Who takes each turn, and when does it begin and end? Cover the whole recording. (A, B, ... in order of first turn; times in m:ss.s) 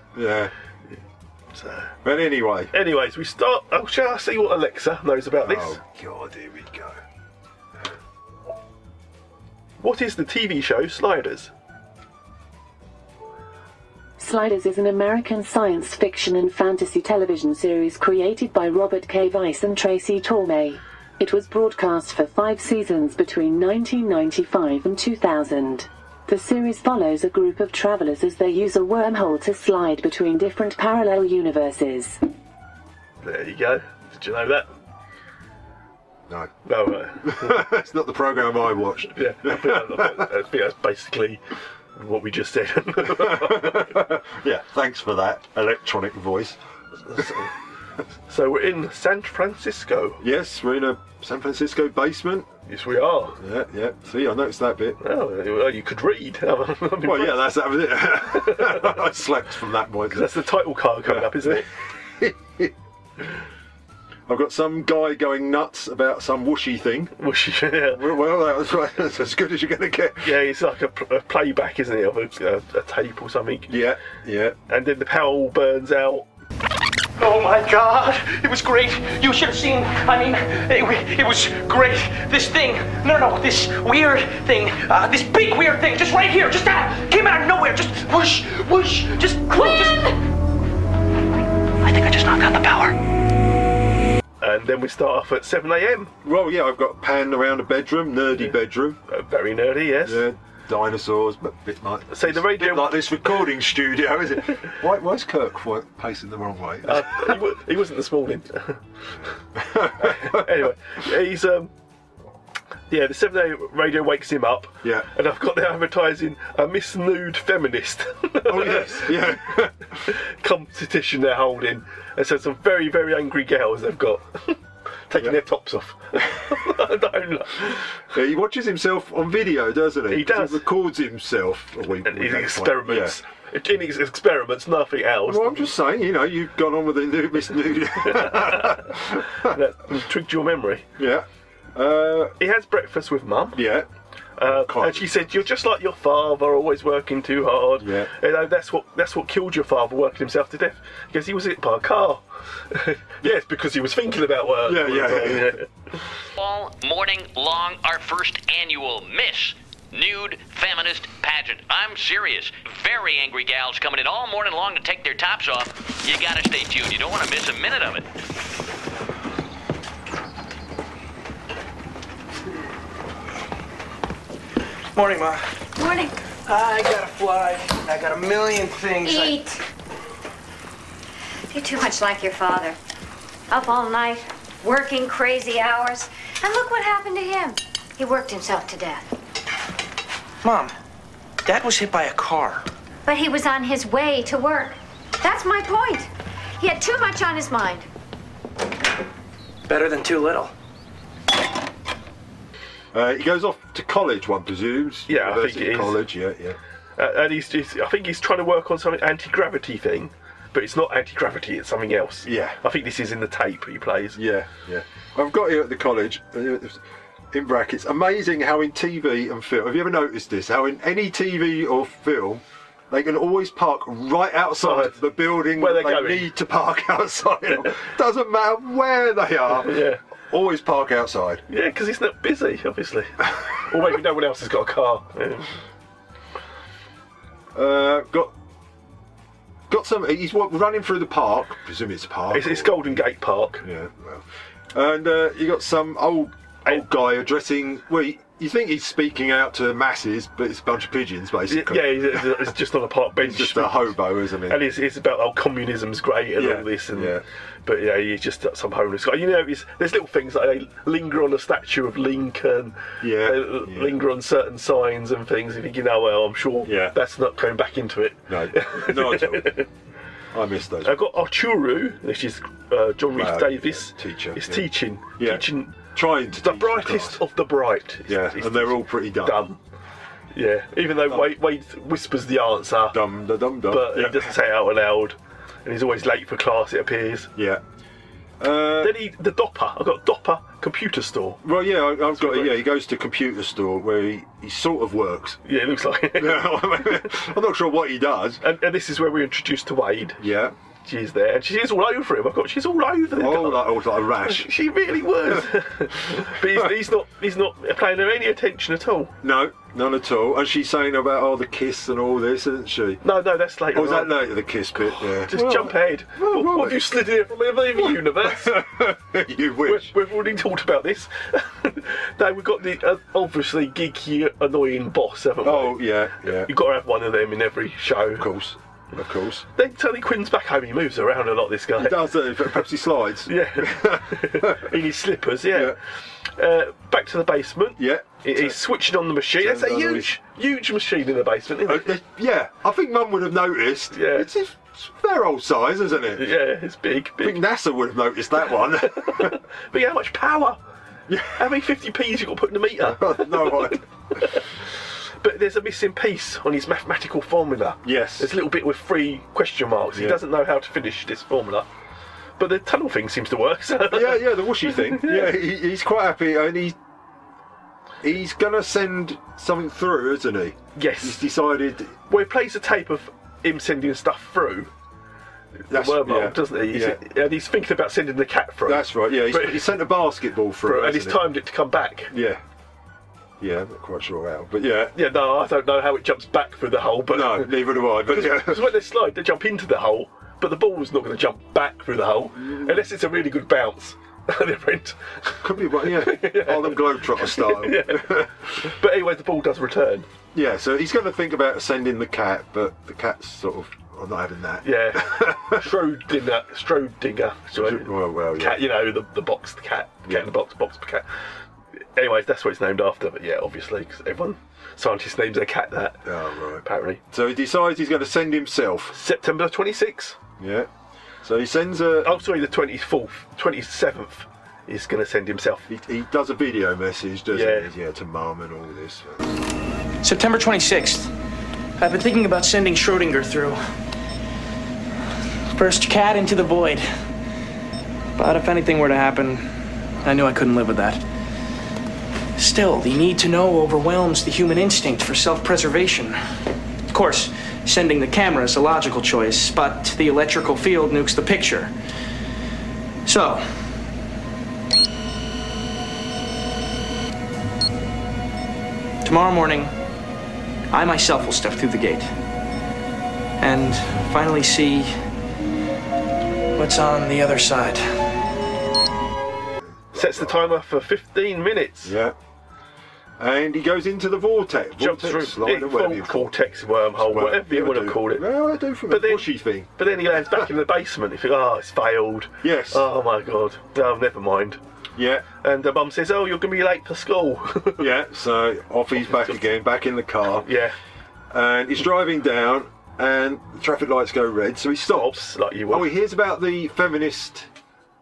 0:00.2-0:00.5 A
0:01.5-0:01.9 B
0:02.0-0:02.7 A
0:02.7-0:05.8 B
0:05.4-0:07.0 A
0:09.8-0:11.5 B
0:14.2-0:32.2 C
0:33.2-0:34.7 B
0:36.3-0:36.5 A
0:36.6-0:37.6 B
0:37.2-0:40.2 A
0:39.1-0:41.4 B
0:42.0-0:44.0 B
0:43.0-0:46.6 A
0:47.1-0:47.5 B
0:48.3-0:50.2 B
0:50.2-0:52.5 A
0:52.7-0:53.4 B
0:53.4-0:55.0 A
0:55.0-0:59.0 B
0:57.0-1:00.3 A
1:00.1-1:01.6 B
1:01.1-1:02.7 A
1:04.3-1:07.2 A
1:07.2-1:08.0 B
1:07.9-1:10.3 A
1:10.2-1:13.9 B
1:13.7-1:14.6 A
1:14.7-1:16.2 B
1:17.2-1:30.2 D
1:31.8-1:33.0 D
1:34.4-1:36.1 B
1:36.2-1:39.0 A
1:39.1-1:40.2 B
1:40.0-1:47.4 A
1:42.1-1:43.2 B
1:46.8-1:48.8 B
1:49.6-1:50.5 A
1:50.0-1:51.7 B
1:52.9-1:59.5 B
1:58.5-1:59.8 A
2:00.0-2:04.6 B
2:05.1-2:07.9 B
2:08.1-2:13.2 A
2:10.1-2:10.6 B
2:12.0-2:15.7 B
2:15.3-2:19.6 A
2:18.0-2:20.9 B
2:21.0-2:22.4 A
2:22.4-2:23.7 B
2:23.5-2:23.9 A
2:24.4-2:35.7 B
2:24.4-2:25.1 A
2:27.8-2:28.1 A
2:34.6-2:35.6 A
2:36.4-2:48.1 E
2:55.0-2:55.4 D
2:55.8-2:56.2 F
2:56.5-2:59.4 D
2:59.0-2:59.6 F
3:01.5-3:02.8 F
3:03.5-3:09.1 F
3:10.4-3:10.8 D
3:11.4-3:12.7 D
3:13.1-3:17.9 F
3:19.7-3:20.5 D
3:22.9-3:26.6 A
3:25.1-3:26.0 B
3:27.0-3:34.2 B
3:32.2-3:32.6 A
3:34.2-3:51.4 A
3:44.6-3:46.3 B
3:49.5-3:50.0 B
3:51.5-3:55.6 B
3:57.6-3:58.3 A
3:59.7-4:03.0 A
4:02.3-4:03.6 B
4:03.6-4:12.6 A
4:11.5-4:13.9 B
4:13.2-4:14.6 A
4:14.5-4:29.7 B
4:16.4-4:17.2 A
4:23.0-4:24.0 A
4:26.7-4:27.0 A
4:28.3-4:29.6 A
4:30.3-4:31.0 A
4:30.8-4:35.8 B
4:33.1-4:37.2 A
4:36.4-4:39.6 B
4:38.1-4:39.4 A
4:40.3-4:43.0 B
4:42.9-4:44.3 A
4:43.7-4:47.3 B
4:47.4-4:47.6 A
4:48.4-4:49.0 A
4:48.8-4:51.4 B
4:51.4-4:55.4 A
4:52.1-4:52.6 B
4:55.4-4:57.1 B
4:56.2-4:58.4 A
4:58.4-5:00.2 B
5:00.2-5:00.6 A
5:00.8-5:03.7 B
5:03.1-5:04.5 A
5:04.2-5:09.2 B
5:06.2-5:06.7 A
5:09.2-5:13.0 A
5:13.0-5:18.6 B
5:13.7-5:16.9 A
5:17.8-5:19.9 A
5:19.6-5:28.3 B
5:25.4-5:26.5 A
5:28.2-5:29.4 A
5:29.6-5:32.0 B
5:31.8-5:34.7 A
5:33.3-5:35.8 B
5:35.5-5:35.8 A
5:36.4-5:41.9 B
5:37.8-5:38.6 A
5:39.4-5:40.1 A
5:41.7-5:46.3 A
5:43.9-5:44.3 B
5:46.2-5:47.4 B
5:47.2-5:49.4 A
5:48.8-5:50.6 B
5:51.1-5:51.4 A
5:51.4-5:54.4 B
5:52.8-5:53.8 A
5:55.2-6:01.7 B
5:57.8-5:58.3 A
5:59.9-6:00.2 A
6:02.4-6:05.3 B
6:03.9-6:06.8 A
6:08.0-6:12.0 A
6:10.8-6:11.2 B
6:12.1-6:14.7 B
6:15.7-6:19.7 B
6:15.7-6:17.0 A
6:18.6-6:21.2 A
6:20.6-6:22.1 B
6:22.1-6:22.4 A
6:23.4-6:24.9 A
6:25.0-6:40.1 B
6:27.1-6:28.6 A
6:32.4-6:32.8 A
6:35.4-6:38.3 A
6:40.3-6:45.6 A
6:44.6-6:51.1 B
6:47.5-6:48.7 A
6:52.0-6:56.0 B
6:56.0-6:59.0 A
6:56.6-6:57.0 B
6:58.9-7:00.2 B
7:00.4-7:00.7 A
7:01.2-7:02.2 A
7:02.0-7:05.7 B
7:05.7-7:09.4 A
7:07.3-7:07.7 B
7:10.0-7:11.1 D
7:11.8-7:13.6 D
7:15.5-7:16.9 D
7:18.2-7:19.4 D
7:20.0-7:21.0 D
7:22.4-7:26.2 D
7:26.9-7:31.7 D
7:33.0-7:33.7 D
7:39.0-7:39.7 D
7:40.7-7:42.1 D
7:43.4-7:44.9 D
7:46.6-7:48.0 D
7:49.9-7:50.4 A
7:49.9-7:52.0 B
7:51.8-7:52.2 A
7:53.2-7:56.3 A
7:54.8-7:58.3 B
7:57.0-7:59.7 A
7:58.9-8:04.6 B
8:02.4-8:02.8 A
8:05.0-8:05.2 A
8:05.4-8:07.9 B
8:07.8-8:10.5 A
8:09.0-8:09.5 B
8:10.4-8:10.8 B
8:11.3-8:17.5 A
8:14.9-8:15.9 B